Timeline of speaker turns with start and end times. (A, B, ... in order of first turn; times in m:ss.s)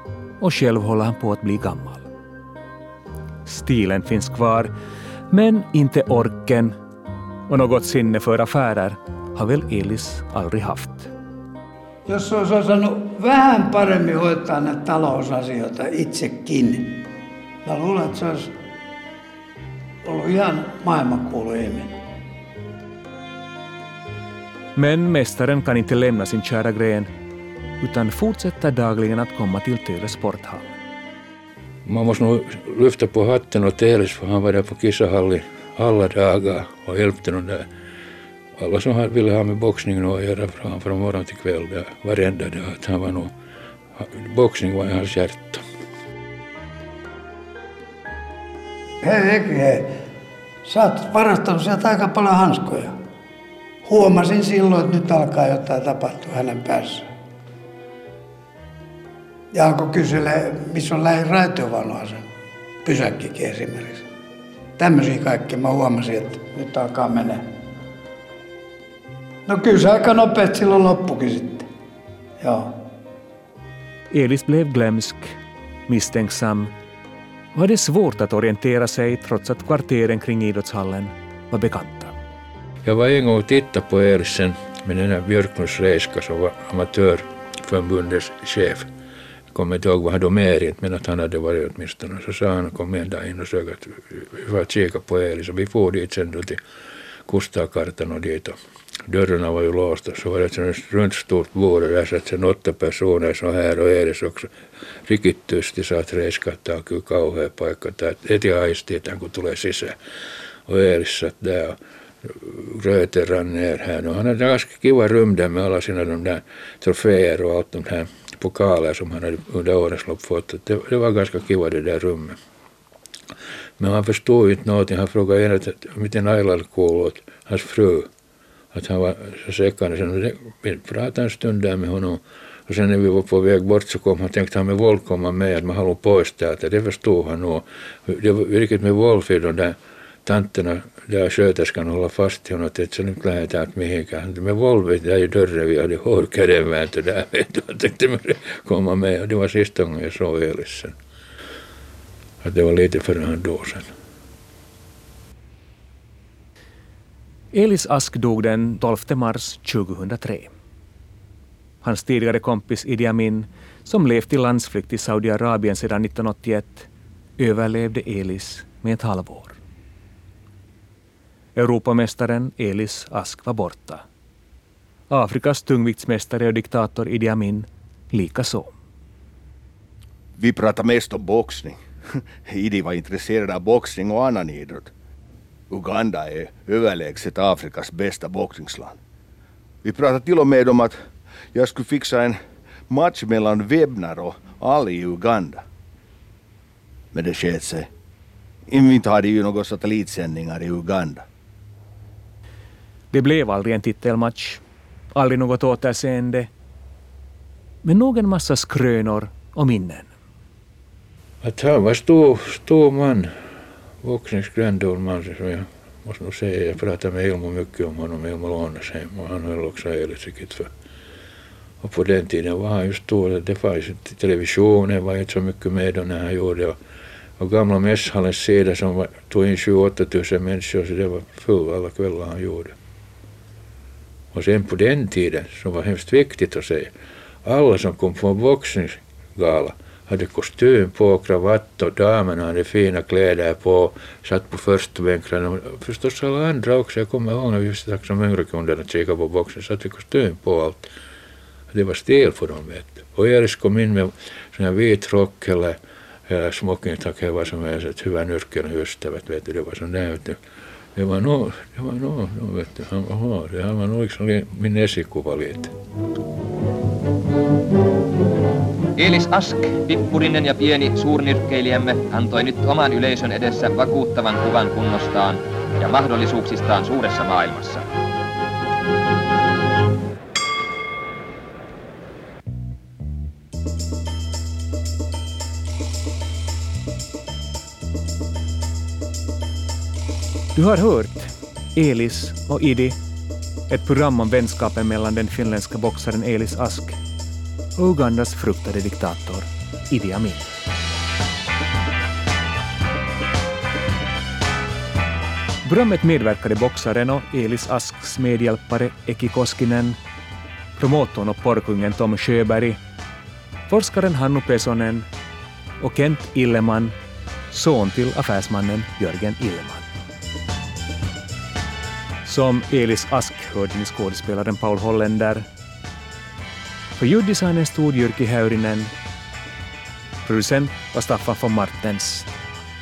0:00.4-0:02.1 A
0:03.4-0:04.7 A
0:05.3-0:06.8 A
0:07.5-0:11.1 A
0:12.1-0:17.1 B
0:17.6-0:18.5 B
0:20.0-0:21.9 B
0:24.8-0:27.1 A
0:27.8-0:30.7 A
0:31.8-0:37.7 C
0:38.6-0:43.3 C
0:44.0-0:45.6 C
0:49.0-0:50.0 B
0:50.6-0:52.9 B
0:53.8-0:57.1 B
0:59.5-1:02.2 B
1:02.8-1:04.0 B
1:04.8-1:07.5 B
1:09.4-1:11.7 B
1:12.4-1:12.8 B
1:14.1-1:15.4 A
1:15.9-1:16.7 A
1:17.5-1:22.1 A
1:22.8-1:28.9 C
1:29.5-1:36.6 C
1:37.2-1:44.5 C
1:45.0-1:50.0 C
1:50.7-2:02.4 C
2:03.8-2:08.1 C
2:08.7-2:30.9 C
2:32.4-2:33.9 C
2:37.5-2:40.5 A
2:41.8-2:49.6 A
2:51.6-2:54.0 A
2:55.1-2:58.7 A
3:00.4-3:04.9 D
3:05.7-3:09.0 D
3:09.8-3:11.0 D
3:11.5-3:12.4 D
3:12.9-3:15.6 D
3:17.1-3:17.9 D
3:18.7-3:21.2 D
3:23.1-3:24.6 A
3:25.1-3:26.5 A
3:27.8-3:30.1 A
3:31.4-3:33.3 C
3:34.0-3:40.7 C
3:41.8-3:46.8 C
3:47.4-3:52.7 C
3:54.3-3:56.9 C
3:57.4-4:10.9 C
4:11.7-4:20.4 C
4:20.9-4:25.7 C
4:29.0-4:37.8 E
4:50.5-4:53.0 A
4:53.7-4:57.0 A
4:57.8-5:00.6 A
5:05.6-5:10.0 A
5:10.8-5:12.8 A
5:13.7-5:15.1 A
5:15.8-5:17.0 A
5:17.5-5:19.9 A
5:22.2-5:25.5 A
5:27.0-5:28.9 A
5:30.2-5:32.3 A